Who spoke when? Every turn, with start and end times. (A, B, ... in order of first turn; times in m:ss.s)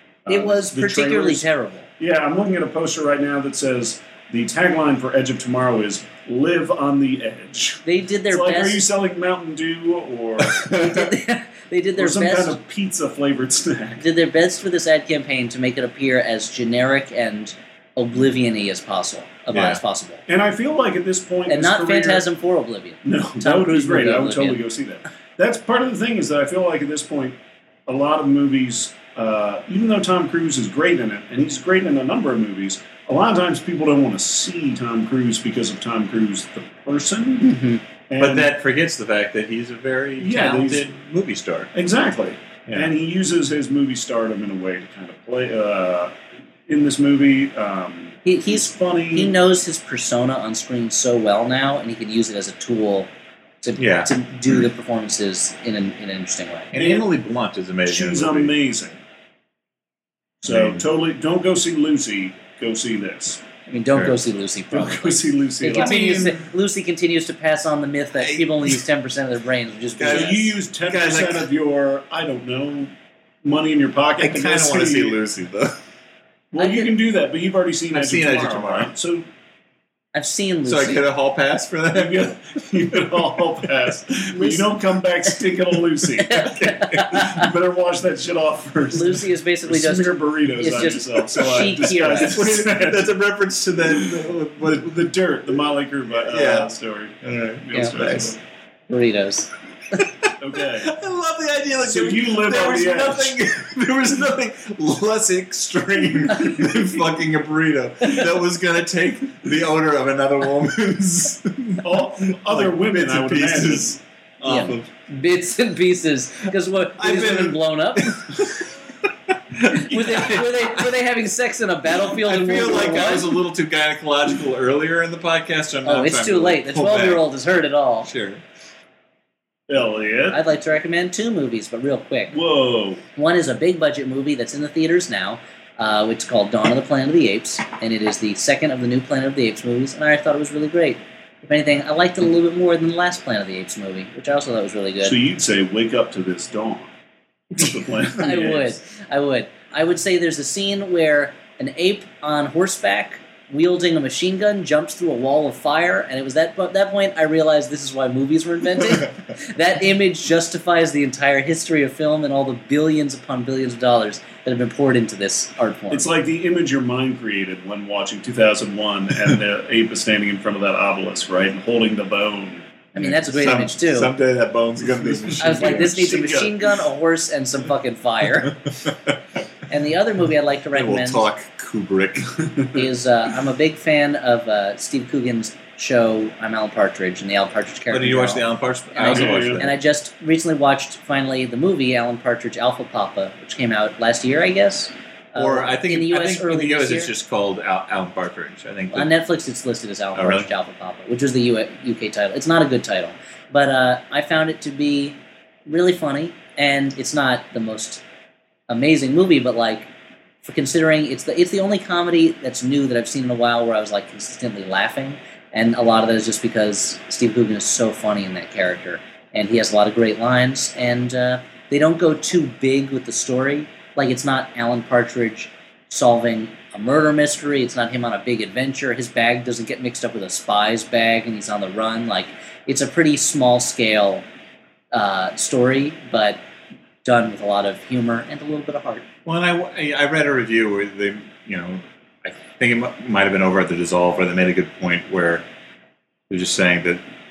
0:00.2-0:01.4 A
0:00.3-0:01.9 B
0:02.0-0:10.7 A
0:07.9-0:08.8 B
0:10.4-0:11.1 C
0:10.7-0:12.6 B
0:12.0-0:14.0 A
0:14.0-0:20.2 B
0:19.5-0:19.8 C
0:20.3-0:22.2 A
0:21.5-0:24.6 B
0:23.0-0:37.5 A
0:37.4-0:37.8 B
0:38.1-0:38.5 A
0:38.2-0:41.7 C
0:40.2-0:40.9 A
0:41.7-0:46.2 A
0:46.7-0:49.3 A
0:48.2-0:53.1 B
0:53.6-0:56.7 B
0:53.8-0:54.1 C
0:56.7-0:58.5 C
0:56.8-0:57.1 A
0:57.9-0:59.0 A
1:00.4-1:00.9 C
1:00.4-1:03.4 A
1:03.7-1:10.5 B
1:04.7-1:06.3 A
1:05.8-1:06.4 C
1:08.2-1:08.8 C
1:10.0-1:11.5 C
1:10.0-1:12.9 A
1:13.4-1:15.2 A
1:14.2-1:15.8 C
1:16.5-1:19.2 A
1:16.6-1:16.9 B
1:17.9-1:18.9 C
1:20.1-1:21.0 B
1:20.7-1:22.3 C
1:21.9-1:26.6 A
1:26.2-1:27.5 B
1:26.3-1:27.4 C
1:27.1-1:33.1 A
1:28.9-1:32.4 B
1:31.6-1:35.0 C
1:33.8-1:38.4 A
1:36.3-1:36.7 C
1:37.2-1:38.4 C
1:38.9-1:39.5 B
1:40.0-1:54.9 C
1:40.4-1:40.9 A
1:41.8-1:43.4 A
1:46.3-1:46.6 B
1:48.0-1:48.3 B
1:51.8-1:54.0 A
1:54.5-1:58.4 B
1:57.0-2:00.9 C
1:59.7-2:03.3 B
2:02.0-2:07.2 C
2:05.8-2:08.1 B
2:08.1-2:08.4 C
2:09.7-2:10.4 A
2:10.3-2:12.4 B
2:12.3-2:13.0 A
2:13.2-2:25.2 B
2:25.0-2:26.9 A
2:27.5-2:28.8 A
2:27.6-2:46.1 B
2:45.9-2:52.7 A
2:52.9-2:54.1 B
2:53.0-2:56.2 C
2:55.0-2:56.8 A
2:55.4-2:58.6 B
2:58.4-2:59.2 C
2:59.7-3:01.2 B
3:00.7-3:02.5 C
3:02.7-3:17.1 B
3:07.9-3:09.7 C
3:09.1-3:09.7 A
3:15.4-3:19.1 C
3:18.9-3:28.0 B
3:20.2-3:20.5 C
3:28.7-3:29.9 B
3:30.4-3:54.2 B
3:54.9-3:56.4 B
3:57.0-3:59.0 B
3:59.2-4:05.4 C
4:06.3-4:07.0 C